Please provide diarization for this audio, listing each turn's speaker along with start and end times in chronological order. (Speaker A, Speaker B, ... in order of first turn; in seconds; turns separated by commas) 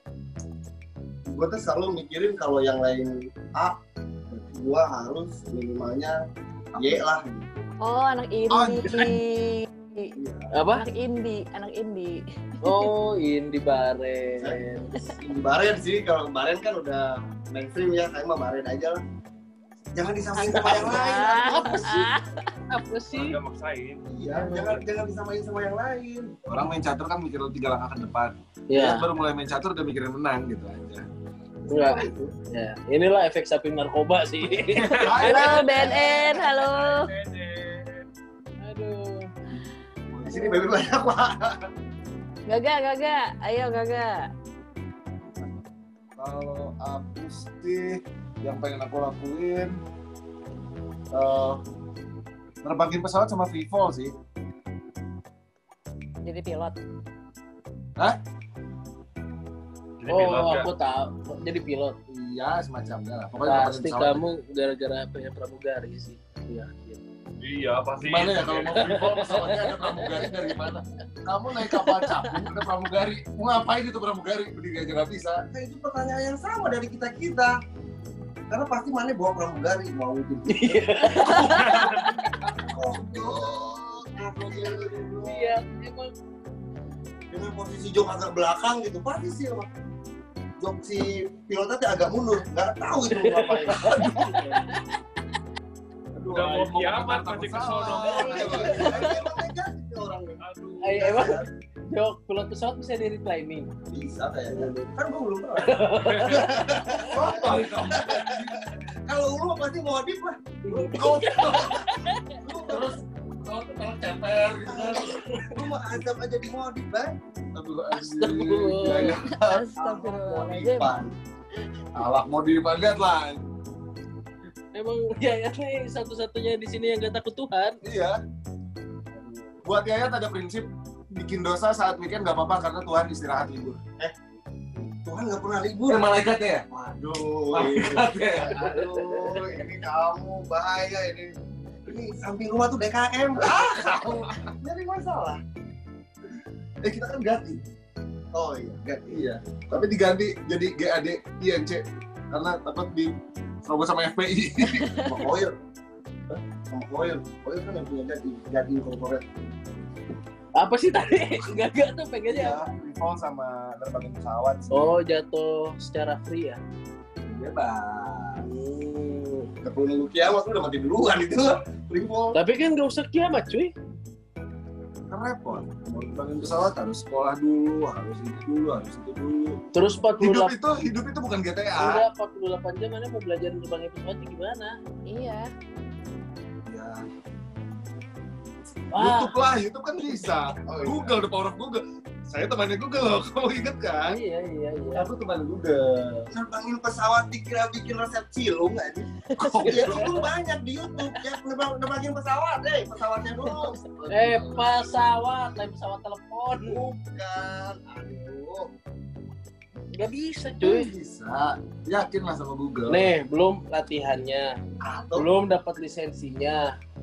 Speaker A: 1.3-3.8, Speaker A: 4.3-6.2, Speaker B: 6.7-7.0, Speaker A: 6.7-7.7, Speaker C: 7.8-10.1, Speaker B: 8.5-8.8, Speaker D: 8.9-9.1, Speaker A: 10.2-10.5, Speaker D: 10.5-10.8, Speaker C: 10.7-12.9, Speaker D: 12.6-15.1, Speaker A: 14.4-19.0, Speaker A: 19.9-21.8, Speaker D: 20.4-22.1, Speaker C: 20.6-22.5, Speaker D: 22.7-23.4, Speaker E: 23.1-24.8, Speaker A: 24.1-26.4, Speaker D: 24.3-24.7, Speaker B: 26.5-31.0, Speaker D: 28.7-29.0, Speaker A: 31.7-32.3, Speaker D: 31.7-35.8, Speaker B: 34.7-36.1, Speaker E: 34.9-38.0, Speaker C: 35.1-37.1, Speaker A: 35.7-36.3, Speaker D: 38.6-39.3, Speaker B: 40.1-40.8, Speaker A: 40.2-41.6, Speaker C: 42.5-44.3, Speaker B: 46.2-49.8, Speaker B: 51.1-51.6, Speaker B: 52.6-54.1, Speaker C: 56.2-56.8, Speaker E: 60.0-60.7, Speaker D: 60.1-62.0, Speaker B: 62.1-64.2, Speaker D: 63.4-67.0, Speaker E: 67.4-69.2, Speaker B: 68.0-75.4, Speaker D: 68.8-70.5, Speaker D: 71.6-72.3, Speaker A: 75.5-77.5, Speaker A: 78.5-85.5, Speaker D: 80.5-82.0, Speaker E: 81.5-82.1, Speaker B: 81.8-84.8, Speaker D: 85.2-86.1, Speaker A: 87.3-89.7, Speaker A: 90.6-94.5, Speaker D: 93.1-94.9, Speaker B: 93.8-94.5, Speaker B: 96.1-99.2, Speaker E: 96.3-98.7, Speaker A: 98.0-101.5, Speaker E: 100.4-101.2, Speaker D: 100.8-103.7, Speaker A: 103.9-108.5, Speaker D: 104.5-104.9, Speaker D: 105.6-107.0, Speaker E: 106.0-106.6, Speaker B: 107.0-108.6, Speaker A: 109.0-110.4, Speaker D: 110.6-112.4, Speaker B: 110.7-112.0, Speaker A: 112.4-112.9, Speaker B: 112.6-115.2, Speaker A: 114.7-117.2, Speaker D: 115.1-115.5, Speaker B: 117.5-119.4, Speaker D: 117.9-119.2, Speaker A: 118.9-121.1, Speaker C: 119.3-121.0, Speaker B: 121.9-123.4, Speaker D: 124.7-127.8, Speaker B: 127.8-128.2, Speaker A: 129.1-129.6, Speaker B: 129.6-133.8, Speaker A: 134.7-136.2, Speaker B: 135.8-136.7, Speaker A: 136.7-141.3, Speaker B: 137.5-138.8, Speaker A: 141.8-145.4, Speaker B: 143.4-144.5, Speaker A: 146.8-147.6, Speaker A: 148.3-149.4, Speaker B: 149.6-155.0, Speaker C: 154.8-155.1, Speaker A: 155.0-155.6, Speaker A: 156.7-159.2, Speaker D: 160.6-162.7, Speaker B: 162.3-164.9, Speaker D: 164.7-166.6, Speaker B: 167.2-168.4, Speaker D: 168.4-169.5, Speaker A: 169.6-172.4, Speaker D: 172.3-173.7, Speaker B: 175.1-179.6, Speaker D: 179.7-180.5, Speaker B: 180.2-182.1, Speaker D: 181.7-184.8, Speaker C: 185.1-185.5, Speaker B: 186.7-187.0, Speaker D: 188.9-189.3, Speaker B: 189.0-194.2, Speaker A: 190.6-191.2, Speaker D: 194.1-195.1, Speaker B: 194.9-196.3, Speaker A: 196.3-203.8, Speaker B: 199.4-200.2, Speaker D: 199.6-200.1, Speaker B: 203.6-205.0, Speaker D: 204.1-206.8, Speaker A: 206.6-208.7, Speaker D: 209.9-210.9, Speaker B: 210.6-213.1, Speaker D: 212.9-214.6, Speaker A: 214.8-215.3, Speaker D: 215.1-216.7